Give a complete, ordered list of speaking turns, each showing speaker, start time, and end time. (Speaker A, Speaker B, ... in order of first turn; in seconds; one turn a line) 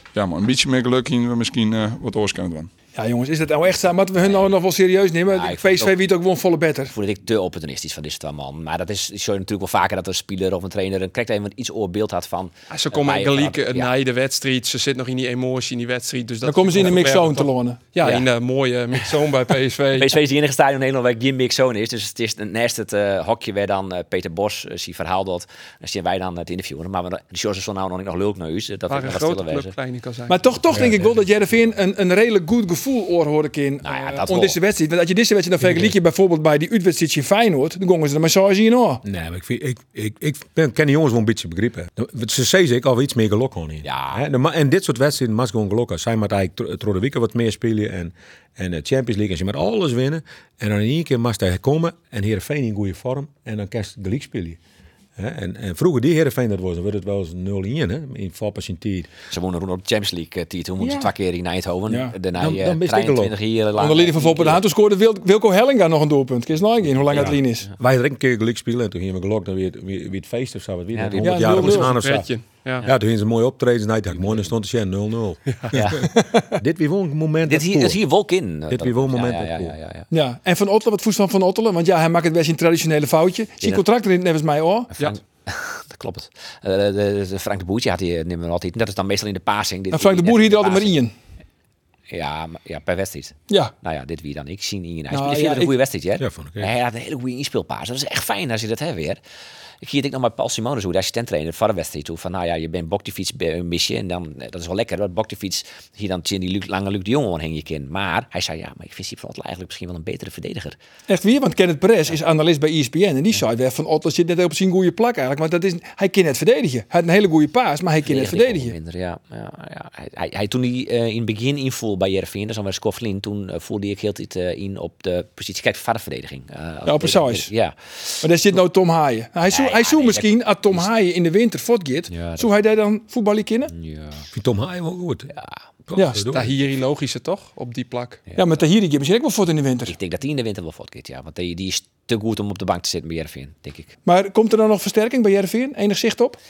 Speaker A: 0.1-2.7
Speaker B: 2.9-6.9
Speaker C: 4.2-4.5
Speaker C: 5.3-6.0
Speaker C: 6.9-13.9
Speaker D: 12.7-20.1
Speaker B: 16.4-17.8
Speaker C: 18.0-18.3
Speaker C: 19.9-29.7
Speaker D: 28.9-30.4
Speaker B: 30.3-39.0
Speaker E: 30.7-31.1
Speaker C: 33.8-34.6
Speaker E: 35.6-35.9
Speaker E: 39.0-54.6
Speaker C: 43.8-44.2
Speaker E: 55.2-59.1
Speaker C: 59.3-64.6
Speaker B: 61.9-62.1
Speaker E: 62.3-63.3
Speaker B: 63.8-67.7
Speaker E: 67.1-72.3
Speaker C: 70.9-71.8
Speaker B: 71.2-71.9
Speaker D: 71.7-72.8
Speaker E: 72.8-78.0
Speaker C: 74.2-74.5
Speaker C: 75.7-76.0
Speaker B: 76.1-76.6
Speaker C: 77.5-80.1
Speaker E: 78.7-79.7
Speaker B: 80.1-84.9
Speaker C: 84.9-91.0
Speaker B: 89.9-91.1
Speaker C: 92.1-99.2
Speaker B: 95.1-95.8
Speaker E: 96.2-96.7
Speaker C: 99.8-110.8
Speaker B: 111.1-118.7
Speaker C: 118.0-128.3
Speaker B: 126.8-127.5
Speaker B: 128.2-133.7
Speaker C: 129.5-130.9
Speaker C: 132.1-132.5
Speaker C: 133.7-134.3
Speaker E: 134.3-135.3
Speaker E: 135.9-136.5
Speaker B: 135.9-136.2
Speaker D: 136.3-138.2
Speaker B: 138.3-139.9
Speaker C: 139.8-143.9
Speaker B: 144.0-146.4